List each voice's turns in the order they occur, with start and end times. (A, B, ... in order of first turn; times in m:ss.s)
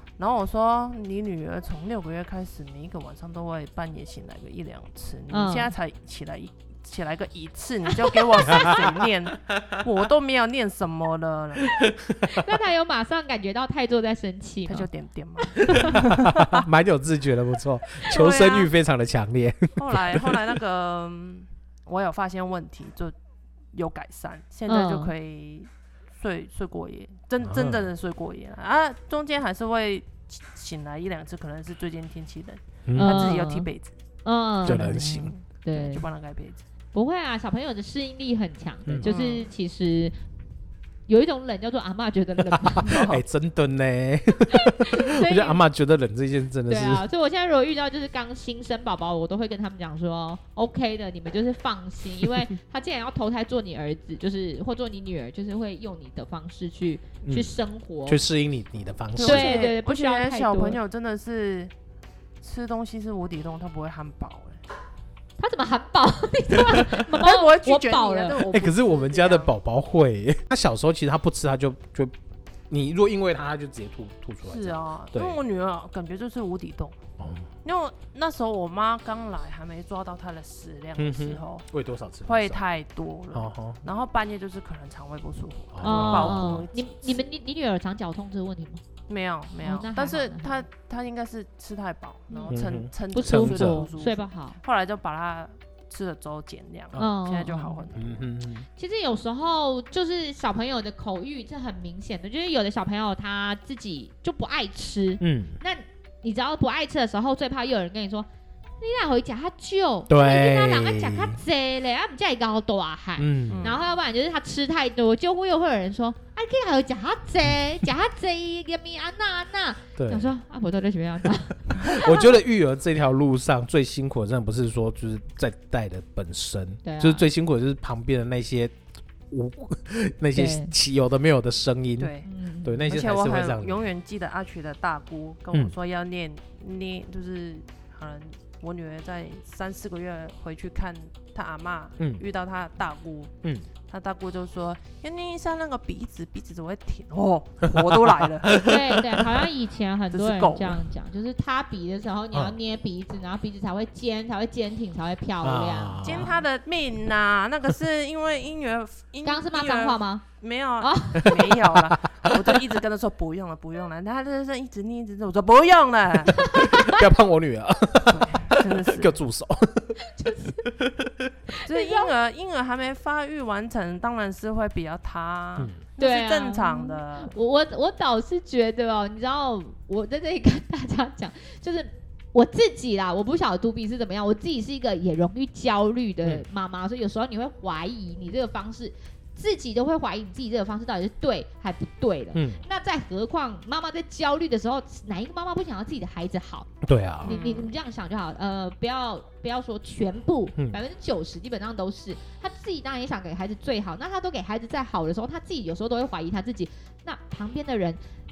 0:00.2-0:11.8 A
0:05.3-0:05.7 B
0:08.0-0:08.9 B
0:08.5-0:08.9 C
0:11.8-0:14.9 B
0:14.7-0:16.7 A
0:15.4-0:16.0 B
0:15.7-0:20.4 C
0:18.1-0:18.7 A
0:18.1-0:18.7 B
0:19.8-0:23.2 A
0:23.7-0:34.0 A
0:24.7-0:25.1 B
0:27.4-0:27.9 C
0:32.9-0:33.4 C
0:33.0-0:33.7 B
0:34.2-0:36.1 B
0:34.6-0:36.6 A
0:34.6-0:35.3 C
0:36.9-0:40.2 B
0:38.9-0:39.1 C
0:39.0-0:39.5 A
0:41.1-0:43.1 B
0:42.7-0:47.1 C
0:42.8-0:43.2 A
0:44.5-0:45.6 B
0:46.7-0:58.2 B
0:57.2-0:59.7 C
0:59.2-1:01.7 A
0:59.2-1:00.8 B
1:02.4-1:04.6 A
1:05.4-1:08.4 B
1:07.1-1:09.5 A
1:08.5-1:12.2 C
1:12.7-1:15.4 C
1:14.4-1:17.0 A
1:17.2-1:17.5 C
1:17.6-1:21.7 A
1:21.0-1:22.6 C
1:22.3-1:27.2 A
1:23.3-1:23.8 C
1:25.7-1:26.6 C
1:25.8-1:28.8 B
1:29.1-1:38.3 A
1:29.6-1:30.7 B
1:32.3-1:32.6 B
1:32.5-1:33.8 C
1:33.1-1:34.6 B
1:37.0-1:37.9 B
1:38.0-1:38.7 C
1:38.8-1:48.3 B
1:45.2-1:45.6 C
1:48.8-2:02.3 B
1:50.1-1:51.4 C
1:53.2-1:53.7 C
1:53.5-1:53.8 A
2:00.0-2:00.3 C
2:01.8-2:08.7 C
2:06.8-2:07.3 B
2:09.3-2:12.1 C
2:10.3-2:10.7 B
2:12.0-2:12.3 A
2:12.2-2:13.0 B
2:12.6-2:13.9 C
2:12.9-2:23.3 A
2:23.9-2:28.7 A
2:27.7-2:29.3 C
2:28.6-2:36.2 B
2:30.1-2:30.8 A
2:35.4-2:36.4 C
2:36.0-2:46.6 A
2:39.2-2:40.2 B
2:40.8-2:41.6 B
2:41.8-2:42.5 C
2:46.4-2:47.0 B
2:46.5-2:50.0 C
2:48.1-2:49.2 A
2:50.0-2:50.7 B
2:50.8-2:51.3 C
2:51.5-2:52.1 B
2:51.7-2:57.3 A
2:56.0-3:16.7 B
3:12.3-3:12.6 C
3:16.8-3:17.4 C
3:17.2-3:17.7 A
3:17.2-3:28.0 B